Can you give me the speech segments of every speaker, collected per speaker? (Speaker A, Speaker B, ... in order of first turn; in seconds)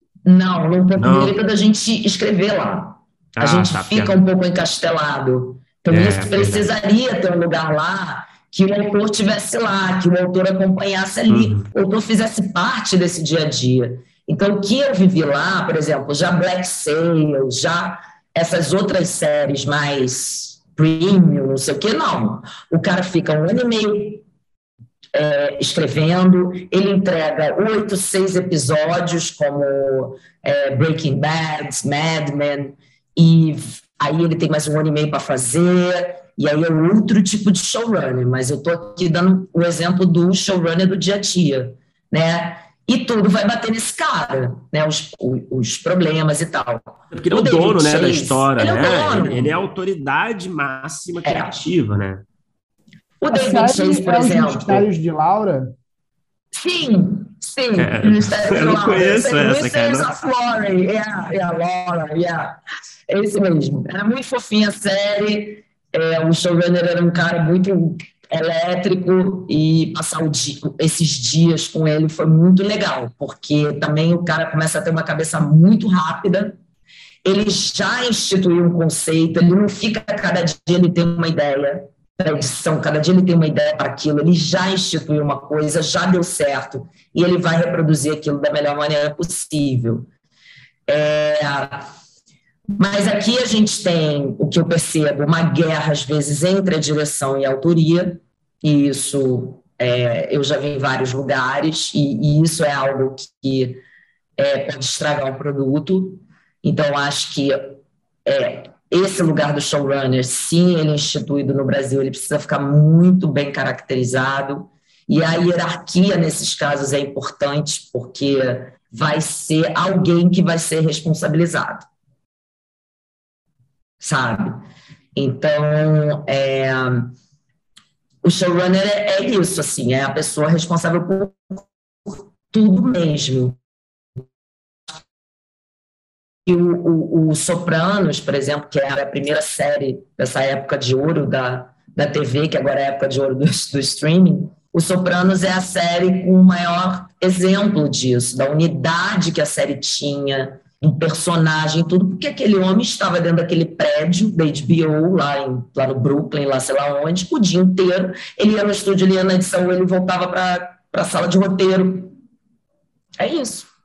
Speaker A: 0.2-24.2, 25.1-49.5, 51.2-51.6, 53.2-54.9, 56.5-62.6, 63.1-76.6, 77.2-90.1, 90.9-91.9, 92.8-103.8, 104.4-121.8, 124.0-124.6, 125.1-127.1, 128.2-133.6, 136.4-162.2, 163.2-163.7
Speaker B: 1.0-1.4, 3.4-4.2, 5.9-6.7, 11.3-11.7, 47.1-52.2, 57.8-60.1
Speaker C: 53.3-55.7